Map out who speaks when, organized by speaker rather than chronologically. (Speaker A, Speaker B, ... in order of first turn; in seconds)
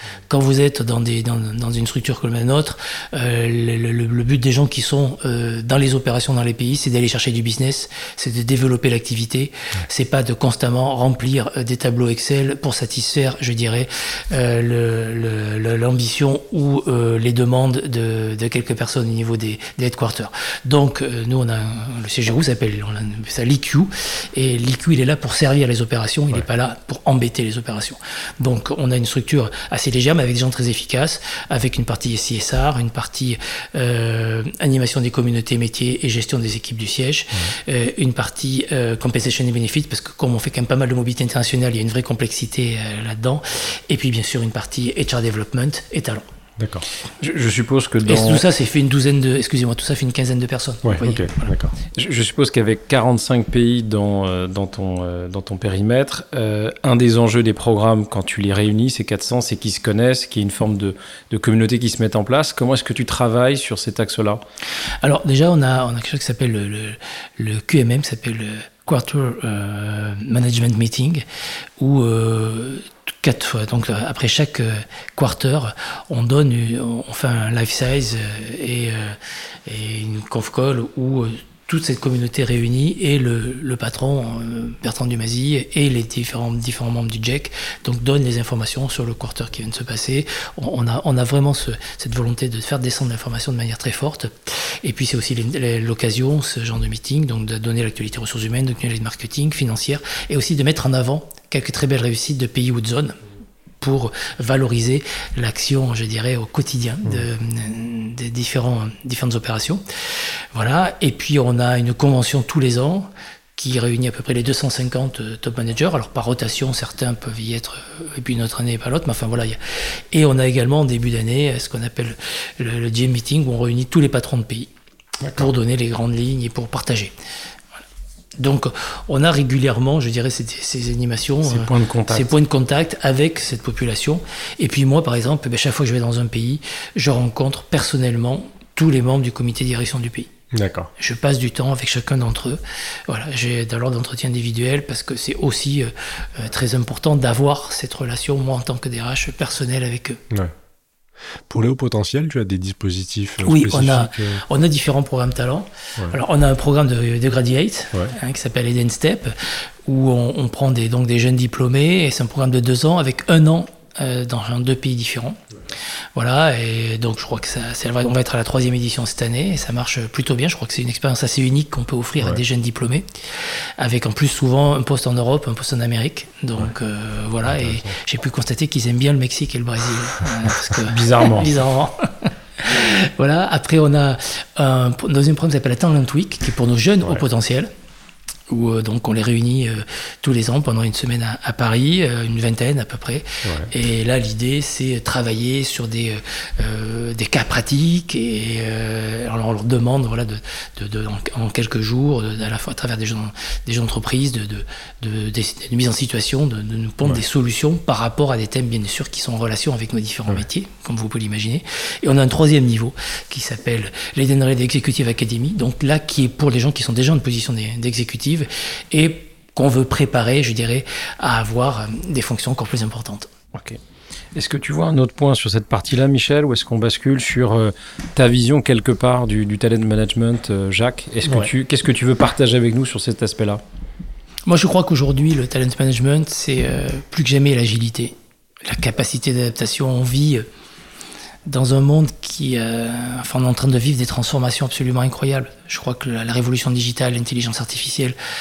Speaker A: 0.3-46.2, 48.1-51.5, 65.0-71.2, 71.8-103.2, 103.8-109.8, 110.5-119.6, 120.1-124.7, 125.3-127.1, 128.4-140.3, 141.0-150.2, 153.4-159.3, 159.8-165.4, 166.1-173.2, 173.8-187.7, 188.5-223.3, 234.5-238.1, 238.6-240.4, 241.4-248.2
Speaker B: 46.6-46.9, 50.8-51.7, 140.5-140.9, 151.5-154.4, 177.4-177.9, 193.4-193.7
Speaker C: 47.2-48.4, 51.9-64.4, 131.4-132.3, 180.9-181.5, 223.5-223.8, 224.3-233.6